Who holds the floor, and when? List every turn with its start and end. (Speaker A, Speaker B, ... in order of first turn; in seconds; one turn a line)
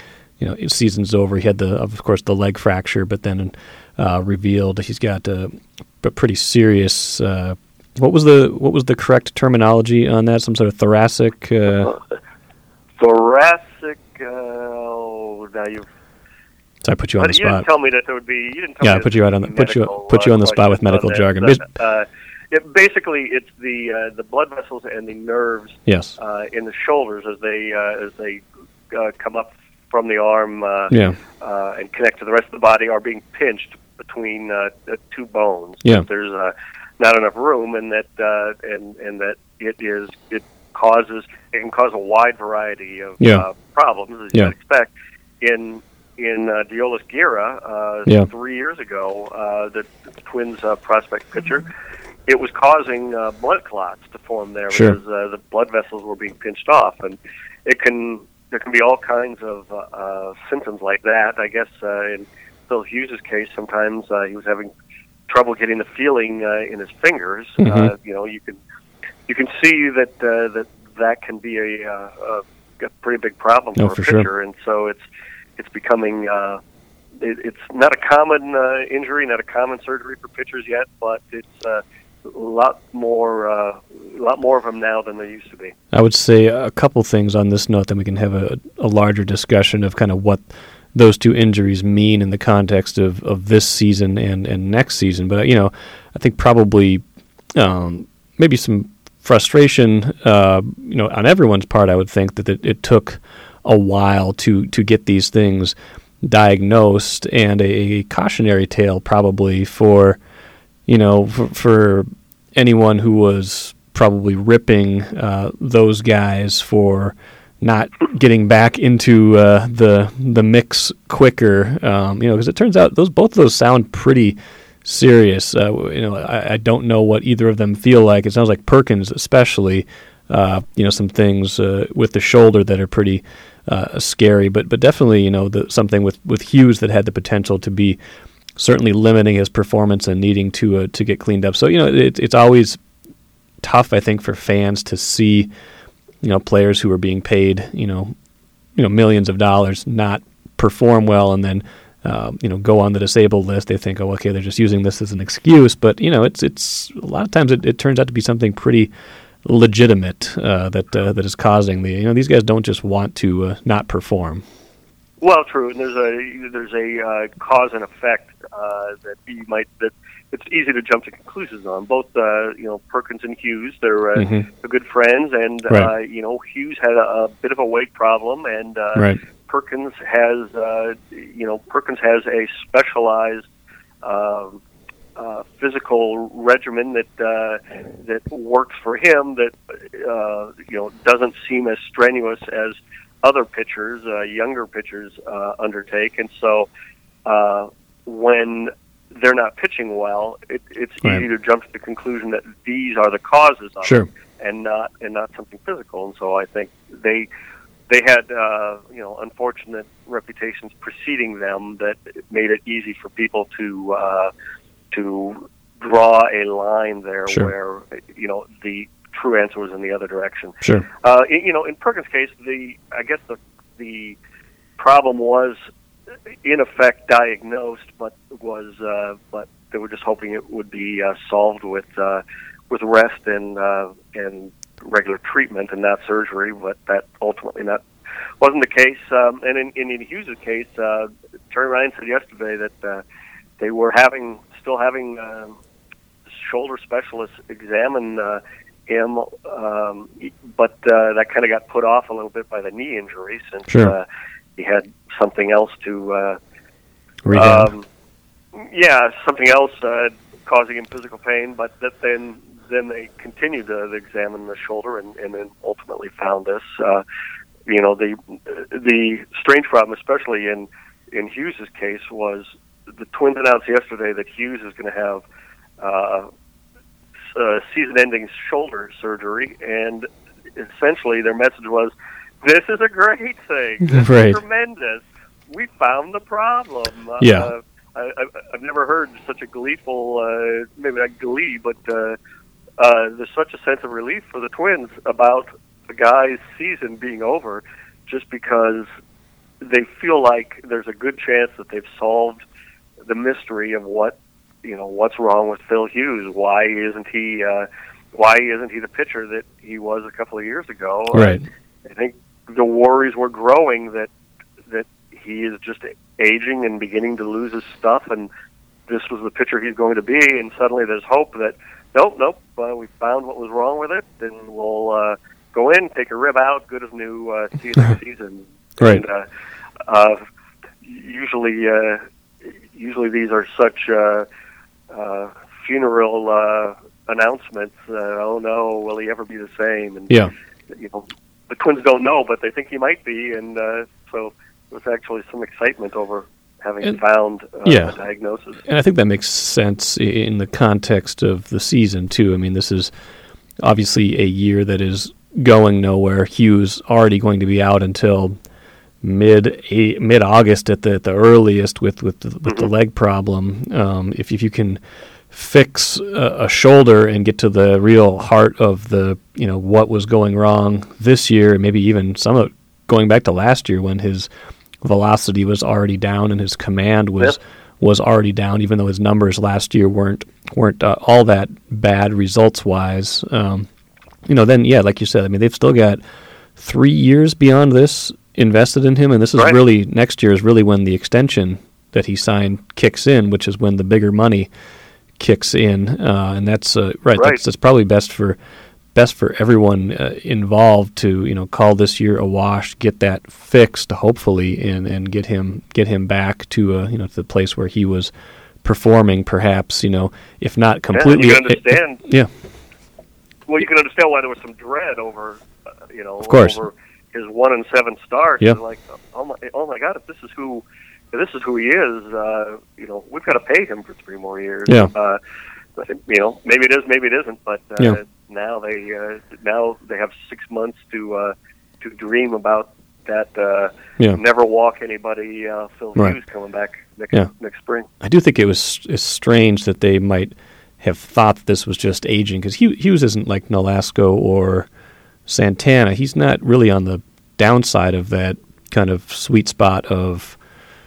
Speaker A: 0.4-11.9
Speaker B: 13.0-15.9
Speaker A: 16.8-17.6
Speaker B: 17.2-51.7
Speaker A: 18.8-21.6
Speaker A: 25.9-26.1
Speaker A: 30.9-31.2
Speaker A: 43.2-43.5
Speaker B: 52.3-64.7
Speaker B: 65.3-68.6
Speaker A: 67.6-67.9
Speaker B: 69.3-75.0
Speaker A: 73.8-74.3
Speaker B: 75.6-76.6
Speaker B: 77.1-85.7
Speaker A: 85.9-90.4
Speaker A: 90.9-97.0
Speaker A: 97.5-110.2
Speaker A: 110.9-138.0
Speaker A: 138.6-142.8
Speaker A: 143.6-145.5
Speaker A: 146.2-148.1
Speaker A: 148.8-158.9
Speaker A: 159.4-164.4
Speaker B: 165.2-183.4
Speaker A: 174.2-174.5
Speaker B: 184.0-184.6
Speaker B: 185.2-196.7
Speaker B: 197.2-207.3
Speaker A: 203.8-204.1
Speaker B: 207.9-214.3
Speaker B: 214.9-224.2
Speaker B: 224.8-225.6
Speaker B: 226.3-237.8
Speaker B: 238.4-243.0
Speaker B: 243.6-245.6
Speaker B: 246.3-254.1
Speaker A: 253.7-253.9
Speaker B: 254.6-256.4
Speaker A: 257.2-257.7
Speaker B: 257.3-257.9
Speaker B: 258.5-267.0
Speaker B: 267.6-275.2
Speaker B: 275.8-276.3
Speaker B: 277.2-292.2
Speaker A: 283.9-284.4
Speaker A: 287.2-287.5
Speaker B: 292.8-298.9
Speaker B: 299.6-302.4
Speaker B: 303.0-314.1
Speaker A: 311.1-311.4
Speaker B: 314.7-318.3
Speaker B: 318.9-329.3
Speaker B: 329.9-330.2
Speaker B: 330.8-334.3
Speaker B: 334.9-340.2
Speaker B: 340.7-348.6
Speaker A: 347.6-348.0
Speaker A: 348.6-352.9
Speaker A: 353.6-358.4
Speaker A: 359.0-364.8
Speaker A: 365.3-374.3
Speaker A: 374.8-383.7
Speaker A: 384.3-386.0
Speaker A: 386.6-394.5
Speaker A: 395.2-398.4
Speaker A: 398.9-408.1
Speaker A: 408.6-412.3
Speaker B: 410.9-412.0
Speaker B: 413.5-425.2
Speaker A: 416.2-416.6
Speaker A: 424.7-424.9
Speaker B: 425.8-437.9
Speaker A: 438.0-444.7
Speaker A: 445.2-450.4